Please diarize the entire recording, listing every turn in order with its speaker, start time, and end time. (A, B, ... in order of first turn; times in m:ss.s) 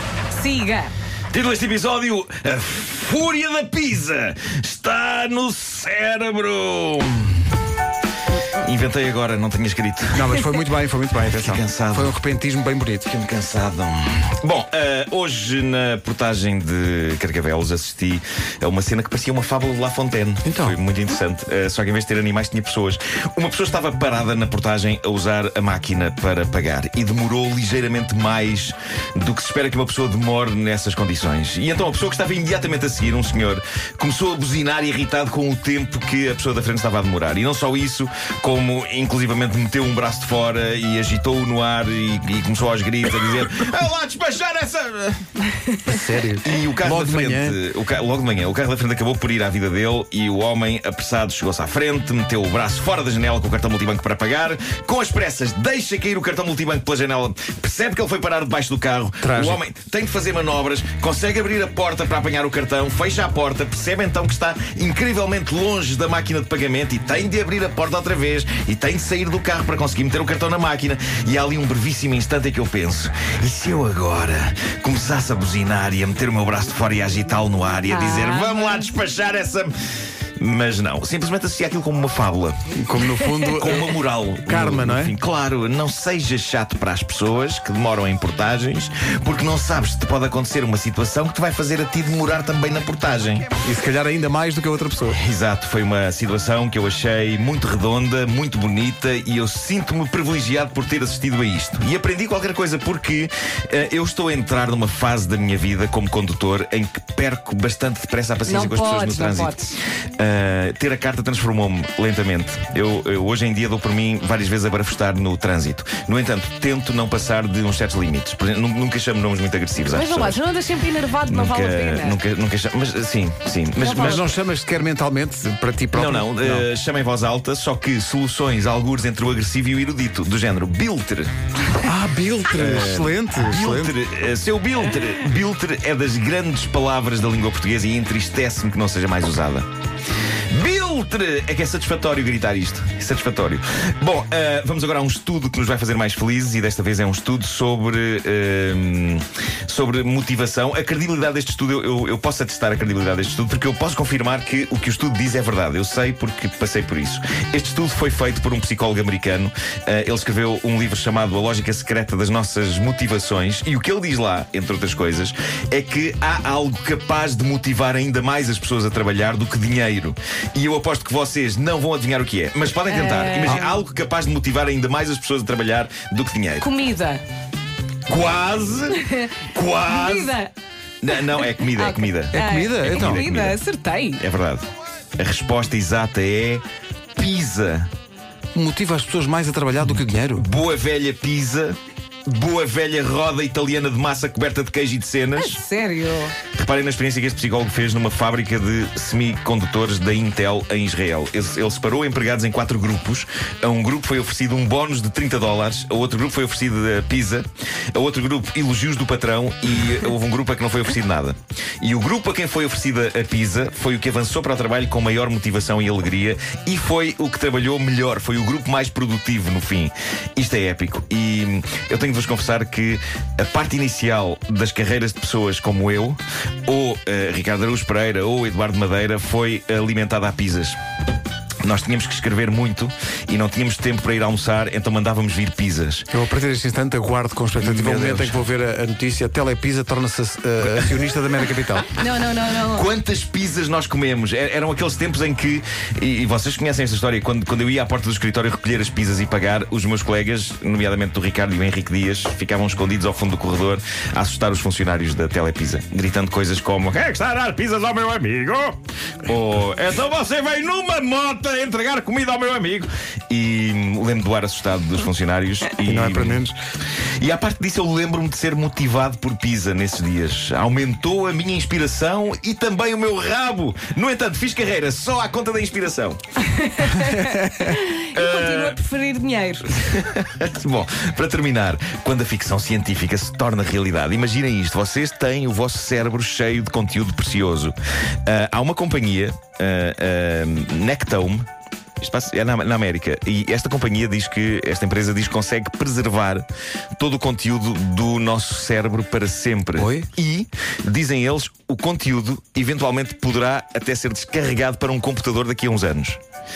0:00.3-0:00.9 A
0:01.3-0:07.5 B
0:08.6-0:10.4 B
0:10.1-0:13.1 C
0:11.3-0:12.2 B
0:13.0-0:45.3 B
0:20.4-0:20.8 C
0:45.8-0:47.6 C
0:46.4-1:19.7 B
0:59.2-0:59.6 C
1:17.9-1:18.9 A
1:20.4-1:22.6 B
1:22.7-1:23.9 C
1:23.5-1:33.5 B
1:24.4-1:25.1 C
1:33.6-1:35.2 C
1:35.1-1:49.6 B
1:48.4-1:49.8 A
1:50.2-2:00.4 B
1:59.9-2:02.2 A
2:01.2-2:04.3 B
2:03.8-2:04.3 A
2:03.8-2:06.7 C
2:05.9-2:11.3 B
2:11.8-2:13.9 C
2:12.5-2:19.7 B
2:20.5-2:56.7 B
2:52.8-2:53.8 A
2:56.6-2:57.2 A
2:58.1-3:00.4 B
2:59.8-3:00.5 A
3:01.0-3:03.6 B
3:01.6-3:04.2 A
3:02.3-3:03.2 C
3:04.2-3:06.6 B
3:07.2-3:07.9 B
3:08.5-3:10.5 C
3:10.3-3:15.6 B
3:15.4-3:16.4 A
3:16.5-3:50.8 B
3:51.6-3:56.1 B
3:56.1-4:02.0 C
3:57.6-3:58.4 B
4:01.9-4:02.9 A
4:02.6-4:26.5 B
4:25.8-4:26.5 C
4:27.2-4:36.2 B
4:36.5-4:39.8 A
4:38.1-4:38.8 B
4:39.8-4:47.7 B
4:48.2-4:51.4 B
4:52.0-4:56.4 B
4:57.0-5:06.2 B
4:59.8-5:00.1 C